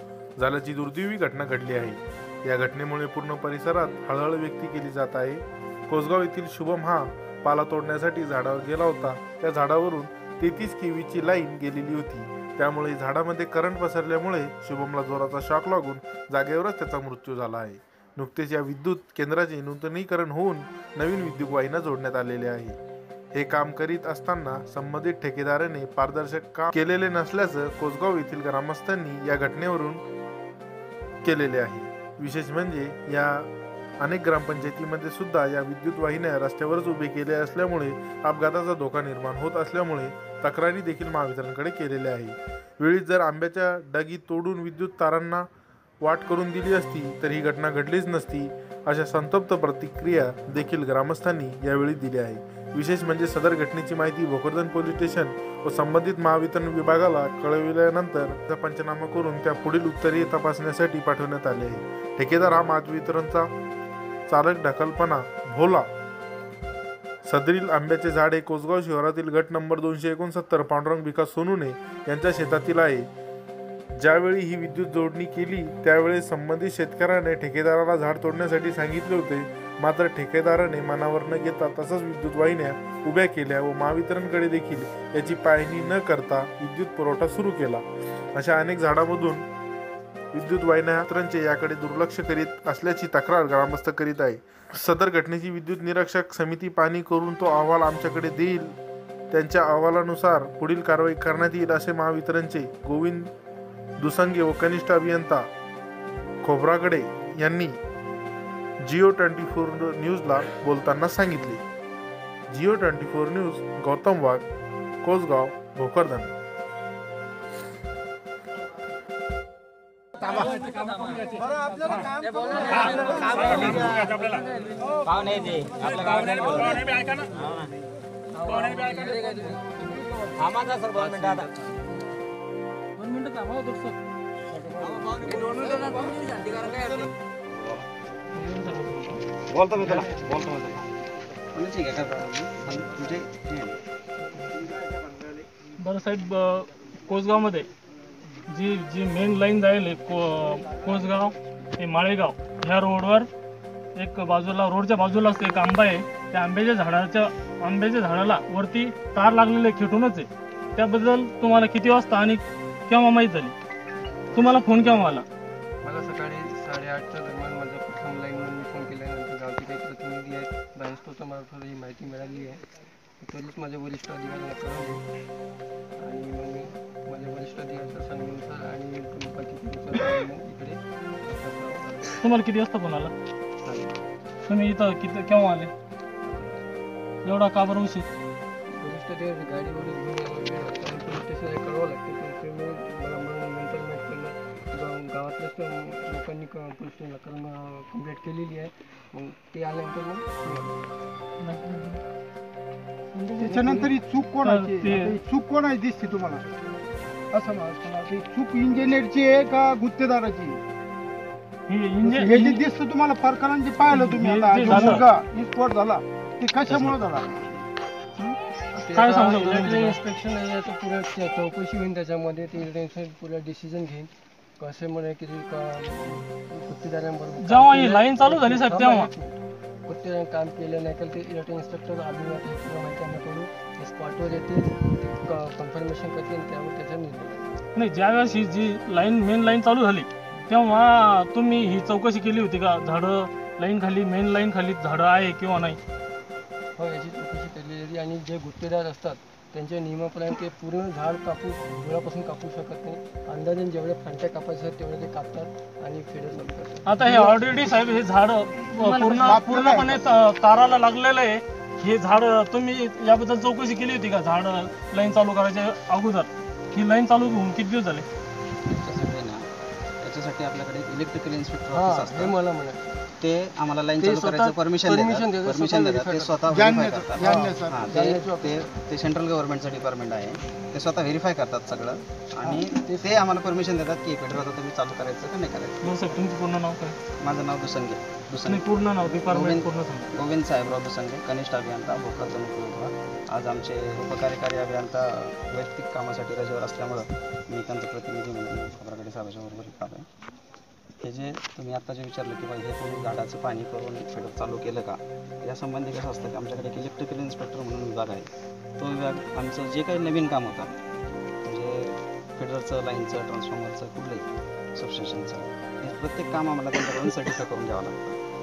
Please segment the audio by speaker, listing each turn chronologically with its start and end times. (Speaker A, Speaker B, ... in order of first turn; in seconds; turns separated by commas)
Speaker A: 0.4-22.8, Speaker A: 23.3-30.0, Speaker A: 31.2-45.5, Speaker A: 46.0-63.5, Speaker A: 64.3-65.9, Speaker A: 67.2-73.1, Speaker A: 73.9-89.5, Speaker A: 90.3-98.8, Speaker A: 99.3-103.3, Speaker A: 104.0-105.5, Speaker A: 106.4-107.8, Speaker A: 108.8-111.6, Speaker A: 112.5-114.5, Speaker A: 115.0-116.3, Speaker B: 122.7-124.4, Speaker C: 122.7-124.0, Speaker C: 125.0-127.7, Speaker B: 128.5-129.2, Speaker C: 128.5-129.3, Speaker C: 130.4-131.7, Speaker C: 134.9-135.9, Speaker B: 138.3-139.2, Speaker D: 139.5-140.8, Speaker B: 139.7-140.2, Speaker D: 141.5-143.8, Speaker B: 145.8-147.7, Speaker B: 148.5-153.3, Speaker B: 154.0-163.6, Speaker B: 164.3-165.2, Speaker E: 165.8-172.6, Speaker E: 173.2-175.0, Speaker E: 176.0-182.3, Speaker B: 182.2-183.1, Speaker E: 183.6-183.9, Speaker B: 184.5-185.7, Speaker E: 186.3-186.6, Speaker B: 187.2-188.1, Speaker E: 188.7-200.8, Speaker B: 201.4-202.0, Speaker B: 203.2-203.9, Speaker F: 203.4-206.4, Speaker B: 204.4-205.2, Speaker F: 207.3-210.6, Speaker B: 211.7-212.6, Speaker F: 212.0-217.4, Speaker B: 213.9-215.1, Speaker E: 218.7-237.6, Speaker B: 218.9-220.0, Speaker B: 227.4-229.1, Speaker B: 237.8-245.8, Speaker E: 246.8-257.3, Speaker B: 256.9-268.1, Speaker E: 258.8-259.4, Speaker F: 259.2-260.0, Speaker D: 268.7-269.5, Speaker D: 270.0-272.4, Speaker E: 271.7-273.0, Speaker D: 273.2-286.1, Speaker E: 274.0-276.4, Speaker F: 276.5-277.8, Speaker E: 277.1-278.6, Speaker E: 282.4-283.2, Speaker B: 285.8-287.0, Speaker D: 287.2-288.7, Speaker B: 288.5-290.1, Speaker D: 289.2-300.1, Speaker D: 301.0-310.8, Speaker D: 311.4-318.2